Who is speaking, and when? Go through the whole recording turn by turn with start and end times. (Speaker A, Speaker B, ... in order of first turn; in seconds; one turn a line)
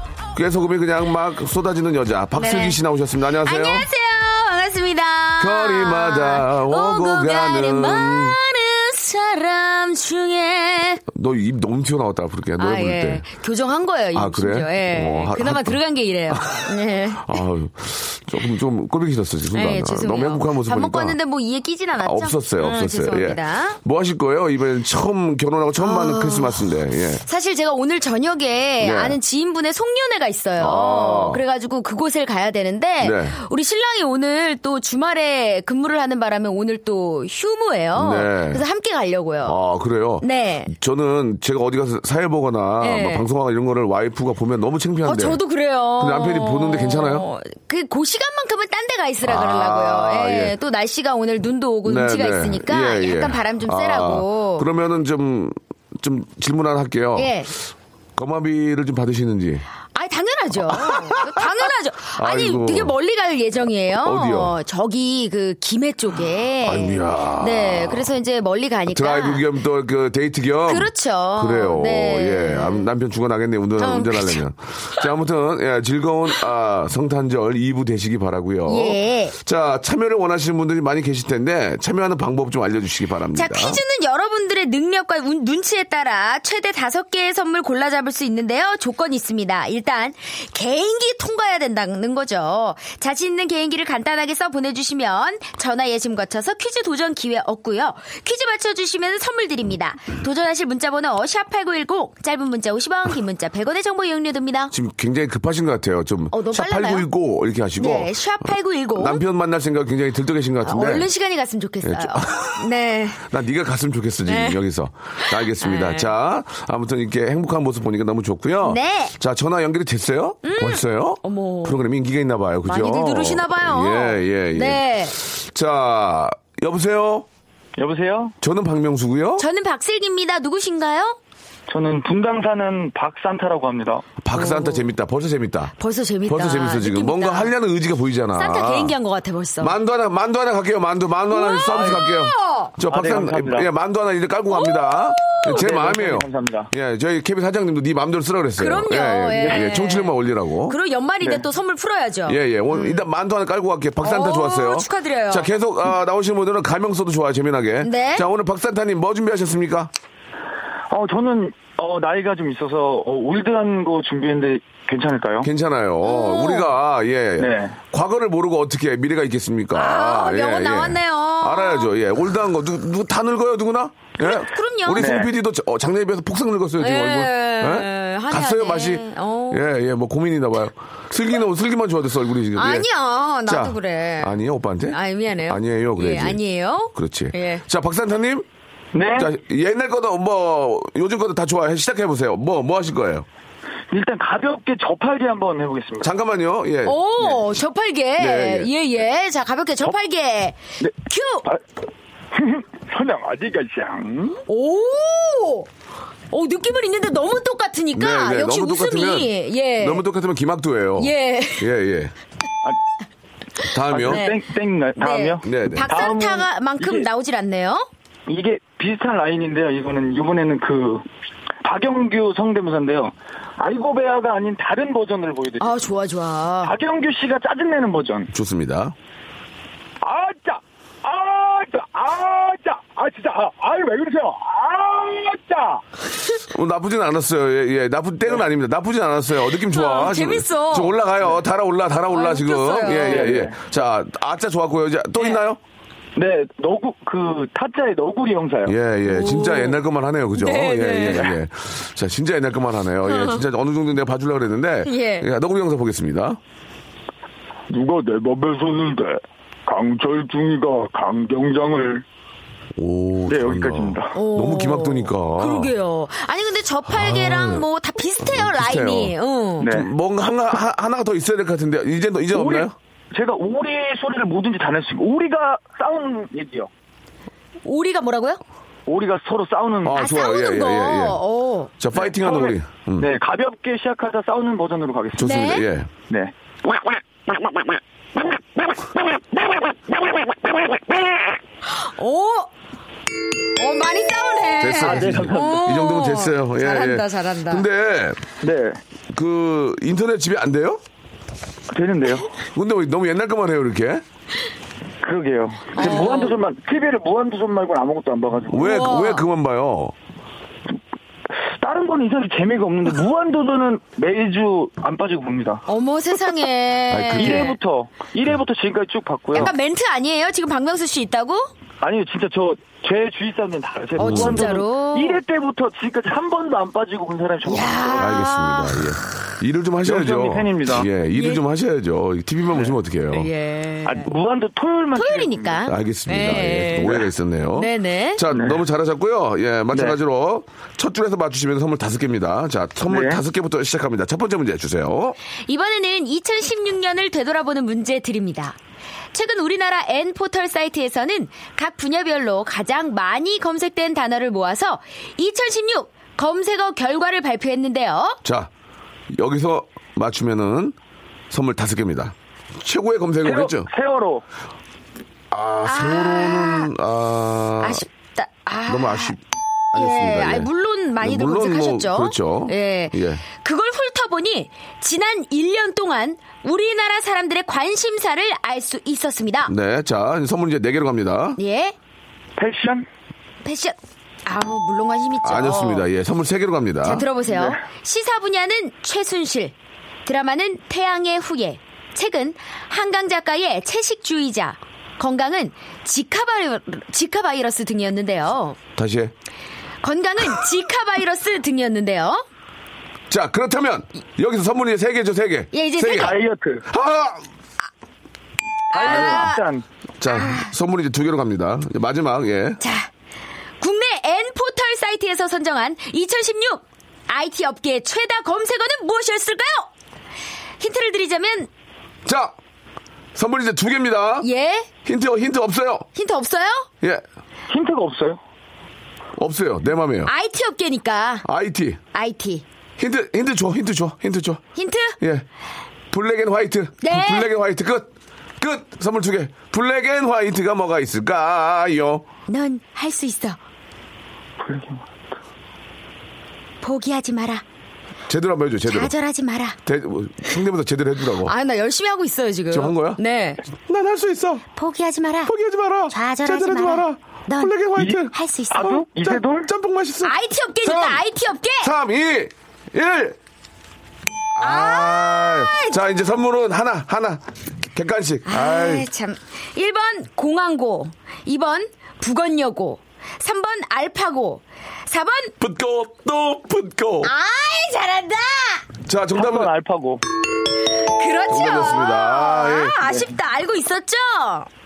Speaker A: 0.3-3.9
Speaker B: 2.4-2.8
Speaker B: 3.4-11.0
Speaker A: 5.4-8.4
Speaker A: 11.1-13.3
Speaker B: 12.6-17.3
Speaker A: 14.1-21.2
Speaker B: 19.5-23.8
Speaker A: 22.0-27.2
Speaker B: 25.8-26.6
Speaker B: 27.2-39.6
Speaker A: 28.8-29.2
Speaker A: 30.6-31.4
Speaker A: 33.0-33.4
Speaker A: 37.9-38.6
Speaker A: 39.4-45.4
Speaker B: 40.2-40.7
Speaker B: 42.8-43.2
Speaker B: 45.0-54.7
Speaker A: 46.0-47.2
Speaker A: 49.2-50.5
Speaker A: 51.8-57.5
Speaker B: 57.1-57.5
Speaker A: 58.1-59.6
Speaker B: 59.9-69.5
Speaker A: 60.6-62.9
Speaker A: 64.0-64.5
Speaker A: 66.6-68.1
Speaker A: 68.9-83.8
Speaker B: 70.7-72.8
Speaker B: 73.8-74.4
Speaker B: 78.7-79.3
Speaker B: 83.3-104.7
Speaker A: 104.7-111.1
Speaker B: 106.3-107.1
Speaker B: 107.8-109.2
Speaker B: 110.6-113.2
Speaker A: 111.8-112.7
Speaker A: 113.2-127.3
Speaker B: 114.2-114.6
Speaker B: 115.2-116.1
Speaker B: 118.6-119.1
Speaker B: 120.4-121.8
Speaker B: 122.7-125.2
Speaker C: 127.8-128.3
Speaker A: 128.4-129.4
Speaker B: 129.4-131.2
Speaker C: 131.7-134.1
Speaker A: 134.2-135.7
Speaker B: 134.3-134.8
Speaker B: 135.8-137.5
Speaker A: 136.3-138.9
Speaker B: 138.3-139.8
Speaker A: 139.6-150.8
Speaker B: 141.3-142.7
Speaker C: 141.7-142.0
Speaker C: 142.9-143.7
Speaker B: 144.5-145.6
Speaker C: 145.5-146.7
Speaker B: 148.6-153.1
Speaker A: 152.3-159.9
Speaker B: 154.0-155.5
Speaker B: 157.8-158.2
Speaker C: 160.9-165.5
Speaker A: 165.4-182.9
Speaker B: 166.0-166.7
Speaker C: 167.4-167.7
Speaker B: 169.7-171.9
Speaker B: 174.2-175.1
Speaker C: 175.0-175.3
Speaker B: 176.8-179.6
Speaker B: 182.5-184.3
Speaker A: 183.4-188.4
Speaker B: 184.9-187.6
Speaker C: 188.9-189.3
Speaker A: 189.1-193.2
Speaker C: 193.9-196.1
Speaker A: 196.0-197.0
Speaker B: 196.8-201.5
Speaker A: 198.2-198.7
Speaker C: 202.3-204.4
Speaker B: 204.5-205.7
Speaker B: 206.3-210.0
Speaker A: 207.9-212.1
Speaker B: 211.0-211.7
Speaker A: 213.7-214.2
Speaker C: 213.9-217.1
Speaker B: 214.0-214.4
Speaker B: 215.0-217.9
Speaker A: 215.4-216.0
Speaker C: 218.3-221.1
Speaker C: 221.6-225.8
Speaker B: 225.6-226.7
Speaker C: 226.6-228.3
Speaker A: 228.3-228.9
Speaker C: 230.0-235.8
Speaker A: 236.4-245.6
Speaker B: 239.7-241.0
Speaker B: 242.1-243.4
Speaker C: 243.0-243.6
Speaker C: 246.2-248.7
Speaker A: 248.7-256.4
Speaker B: 249.1-249.8
Speaker B: 250.3-251.3
Speaker B: 253.1-253.4
Speaker B: 254.8-255.3
Speaker C: 257.7-262.0
Speaker A: 262.8-265.7
Speaker C: 263.3-264.1
Speaker B: 264.1-269.7
Speaker A: 266.9-267.7
Speaker A: 268.2-272.7
Speaker C: 269.6-269.9
Speaker C: 272.3-276.7
Speaker B: 277.6-278.4
Speaker C: 278.9-280.0
Speaker A: 279.8-281.2
Speaker B: 279.9-281.7
Speaker A: 281.8-283.1
Speaker C: 281.9-285.3
Speaker A: 285.2-285.9
Speaker B: 285.2-285.6
Speaker B: 291.7-292.5
Speaker B: 293.6-297.6
Speaker A: 294.6-298.2
Speaker C: 294.8-295.6
Speaker C: 298.4-298.8
Speaker A: 299.1-300.8
Speaker C: 301.7-302.3
Speaker A: 302.5-304.0
Speaker C: 305.0-308.6
Speaker B: 305.7-306.4
Speaker A: 308.5-309.9
Speaker B: 308.5-309.2
Speaker C: 311.6-315.6
Speaker B: 315.7-317.5
Speaker A: 316.9-317.5
Speaker C: 317.1-319.5
Speaker B: 319.3-321.5
Speaker C: 321.8-328.0
Speaker B: 324.0-325.2
Speaker A: 324.0-324.6
Speaker B: 327.4-328.8
Speaker A: 327.9-333.3
Speaker C: 329.8-330.9
Speaker B: 331.1-331.4
Speaker B: 333.1-334.1
Speaker C: 333.9-335.6
Speaker B: 334.9-337.0
Speaker A: 335.6-345.2
Speaker B: 337.6-338.2
Speaker C: 338.3-338.6
Speaker C: 342.9-343.2
Speaker B: 345.4-348.6
Speaker B: 349.1-358.2
Speaker A: 358.2-358.5
Speaker A: 359.1-360.8
Speaker A: 361.3-363.7
Speaker C: 363.2-364.2
Speaker A: 365.3-367.8
Speaker B: 365.6-366.7
Speaker B: 367.6-369.1
Speaker A: 368.7-369.2
Speaker A: 369.7-373.2
Speaker B: 369.7-379.5
Speaker A: 379.5-381.4
Speaker B: 381.4-381.7
Speaker C: 382.4-382.9
Speaker B: 383.4-385.9
Speaker A: 385.2-387.0
Speaker B: 386.8-389.5
Speaker B: 390.1-398.6
Speaker A: 398.8-399.1
Speaker B: 399.8-402.2
Speaker A: 403.1-406.1
Speaker B: 405.5-406.1
Speaker C: 405.9-406.6
Speaker A: 406.7-407.2
Speaker B: 408.7-409.4
Speaker C: 408.7-409.6
Speaker A: 408.8-409.2
Speaker A: 410.0-412.6
Speaker B: 410.1-410.5
Speaker B: 412.6-412.9
Speaker B: 413.6-419.7
Speaker B: 420.6-421.5
Speaker A: 422.1-422.3
Speaker A: 423.1-424.3
Speaker B: 424.2-424.7
Speaker A: 424.8-425.9
Speaker B: 425.9-426.7
Speaker C: 427.5-428.2
Speaker A: 429.2-430.1
Speaker B: 430.1-431.2
Speaker A: 431.2-431.8
Speaker B: 431.9-432.4
Speaker A: 432.8-434.4
Speaker B: 434.6-435.0
Speaker A: 435.0-435.2
Speaker A: 435.9-442.0
Speaker B: 436.8-437.3
Speaker B: 442.3-443.4
Speaker C: 444.4-444.8
Speaker B: 446.6-447.4
Speaker A: 448.1-448.9
Speaker B: 448.7-449.6
Speaker A: 449.6-451.3
Speaker B: 451.2-453.4
Speaker A: 452.5-453.0
Speaker A: 453.5-454.4
Speaker B: 454.5-455.3
Speaker A: 455.2-461.0
Speaker B: 455.9-457.6
Speaker B: 458.1-458.8
Speaker C: 458.5-459.5
Speaker B: 460.0-461.7
Speaker A: 461.6-463.1
Speaker A: 464.4-468.9
Speaker B: 464.4-465.8
Speaker B: 468.3-475.3
Speaker A: 475.4-477.1
Speaker B: 477.0-478.6
Speaker A: 478.9-479.5
Speaker C: 479.1-480.0
Speaker B: 480.8-484.5
Speaker A: 481.3-482.8